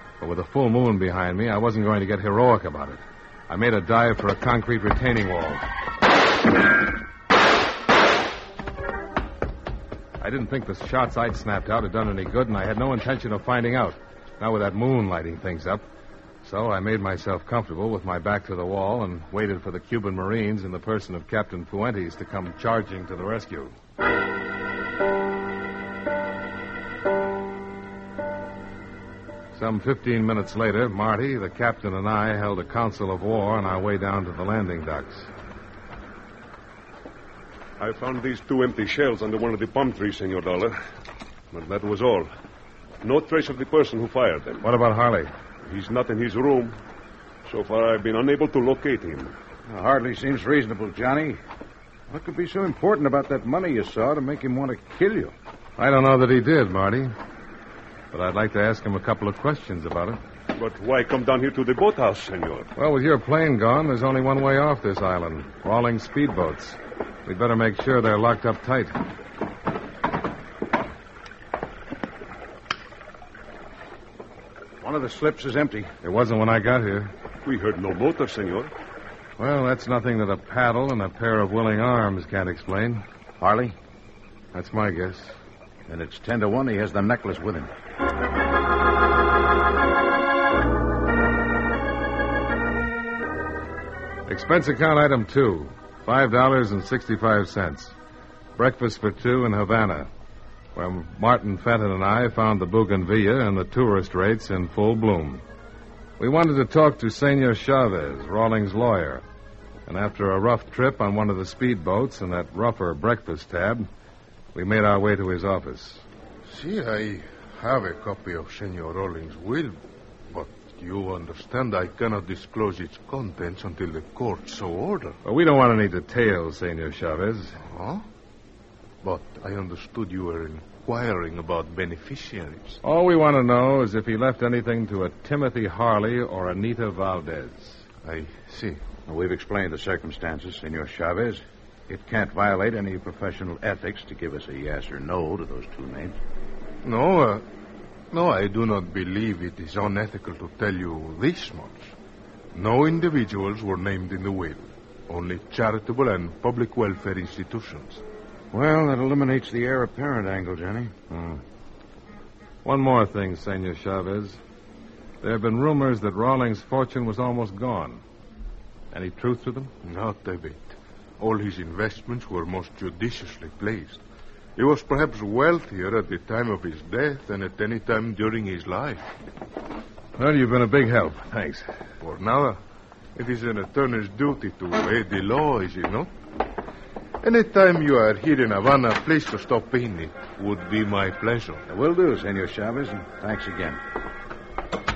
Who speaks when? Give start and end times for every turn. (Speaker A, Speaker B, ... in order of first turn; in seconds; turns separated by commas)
Speaker A: 0.2-5.6, Speaker A: 10.2-15.8, Speaker A: 16.4-23.8, Speaker A: 29.5-35.3, Speaker B: 37.8-40.8, Speaker B: 41.5-42.3, Speaker B: 43.0-44.6, Speaker A: 44.6-45.3, Speaker B: 45.6-46.8, Speaker B: 47.5-49.4, Speaker C: 49.7-51.4, Speaker C: 52.1-55.3, Speaker A: 55.8-57.1, Speaker A: 58.1-60.2, Speaker B: 60.5-62.7, Speaker A: 62.8-69.0, Speaker C: 74.8-75.9, Speaker A: 76.0-77.1, Speaker B: 77.5-78.7, Speaker A: 79.4-83.0, Speaker C: 83.4-83.8, Speaker A: 84.5-85.3, Speaker C: 85.9-87.7, Speaker A: 94.3-98.0, Speaker A: 98.6-100.1, Speaker A: 100.8-105.4, Speaker A: 106.2-109.2, Speaker A: 109.9-113.9, Speaker A: 114.5-116.0, Speaker D: 116.5-125.2, Speaker A: 125.2-127.6, Speaker D: 127.6-128.1, Speaker D: 129.0-132.8, Speaker A: 132.8-137.9, Speaker D: 138.0-138.8, Speaker C: 139.1-146.2, Speaker D: 146.8-147.4, Speaker D: 148.1-151.9, Speaker D: 152.5-158.0, Speaker C: 158.5-160.9, Speaker A: 161.1-161.4, Speaker A: 162.6-164.4, Speaker A: 165.2-168.0, Speaker A: 168.9-169.7, Speaker D: 169.8-174.0, Speaker D: 174.6-179.1, Speaker A: 180.2-181.7, Speaker D: 182.0-182.6, Speaker D: 183.2-186.1, Speaker D: 187.2-191.7, Speaker C: 191.7-193.8